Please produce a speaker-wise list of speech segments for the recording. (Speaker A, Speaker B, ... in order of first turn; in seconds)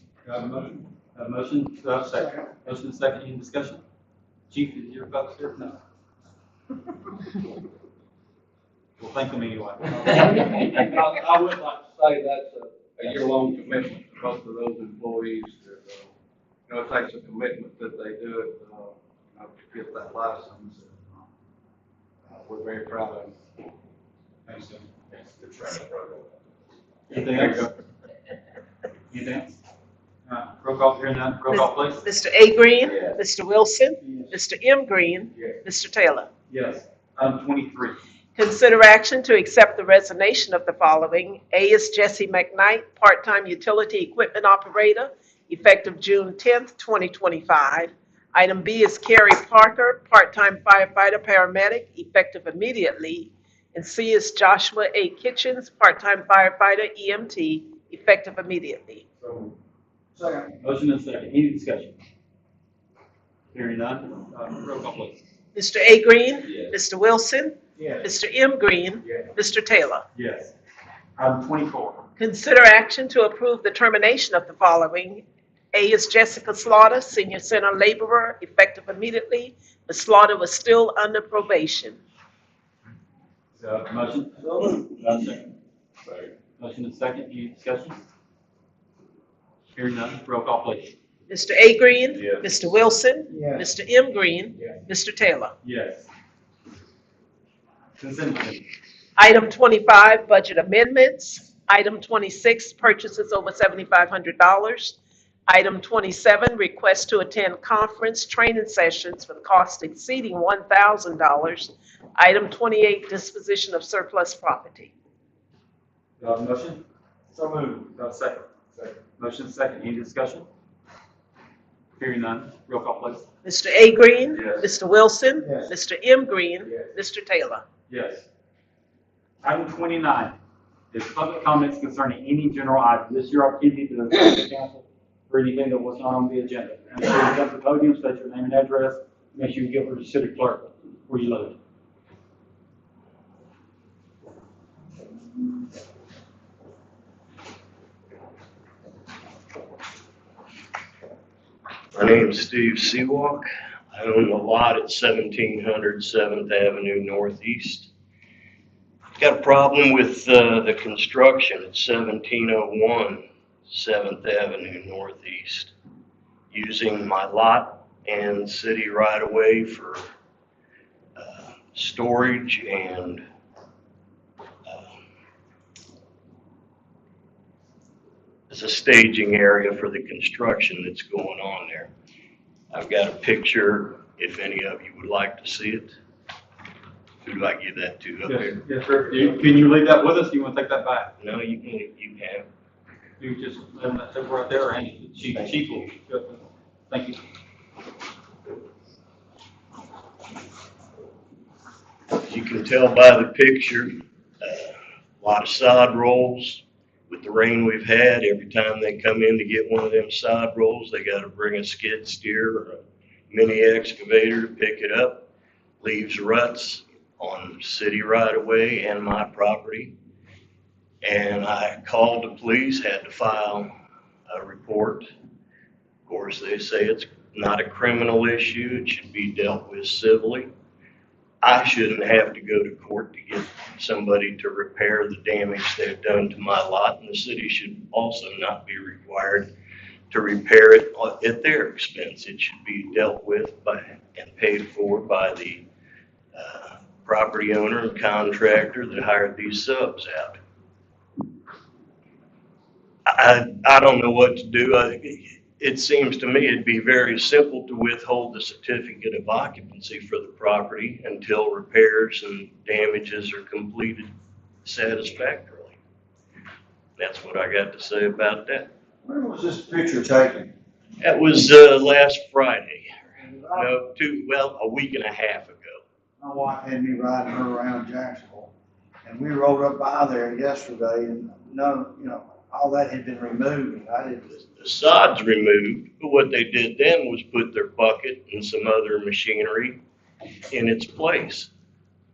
Speaker A: 0.2-3.8, 4.5-5.8, 9.0-10.7, 24.5-24.9, 27.1-27.8, 29.1-29.6, 30.3-32.0, 36.5-38.0, 60.6-62.0, 63.5-65.2, 70.2-70.5, 71.2-72.0, 83.6-85.5, 86.6-88.0, 89.8-90.9, 95.6-96.1, 98.0-98.6, 116.2-118.5, 119.2-120.5, 122.0-123.3, 127.9-128.3, 129.4-130.4, 130.9-141.6, 188.3-191.1, 193.2-197.2
Speaker B: 2.1-2.4, 60.1-60.5, 67.8-68.0, 93.3-93.7, 125.4-125.7, 269.1-270.5, 273.2-273.7, 276.2-278.5, 279.1-284.4
Speaker C: 10.6-16.1, 16.7-21.2, 22.3-23.4, 25.4-25.8
Speaker D: 31.5-36.3, 38.4-59.1, 65.5-70.0, 72.2-82.0, 91.3-95.5, 99.2-105.0, 105.5-114.9, 123.4-127.6
Speaker E: 151.9-157.9, 159.2-165.7, 166.5-170.0, 171.2-173.2, 174.7-174.9, 178.5-181.9, 182.7-186.0, 187.2-188.6, 191.2-192.5, 195.3-195.9, 202.2-215.3, 215.8-219.9, 221.0-223.7, 224.3-225.1, 226.1-230.5, 231.4-239.5, 240.1-245.7, 246.3-250.4, 253.1-264.1, 264.6-265.8, 267.0-268.7, 271.0-273.0, 273.5-275.8, 284.6-289.8, 290.5-291.5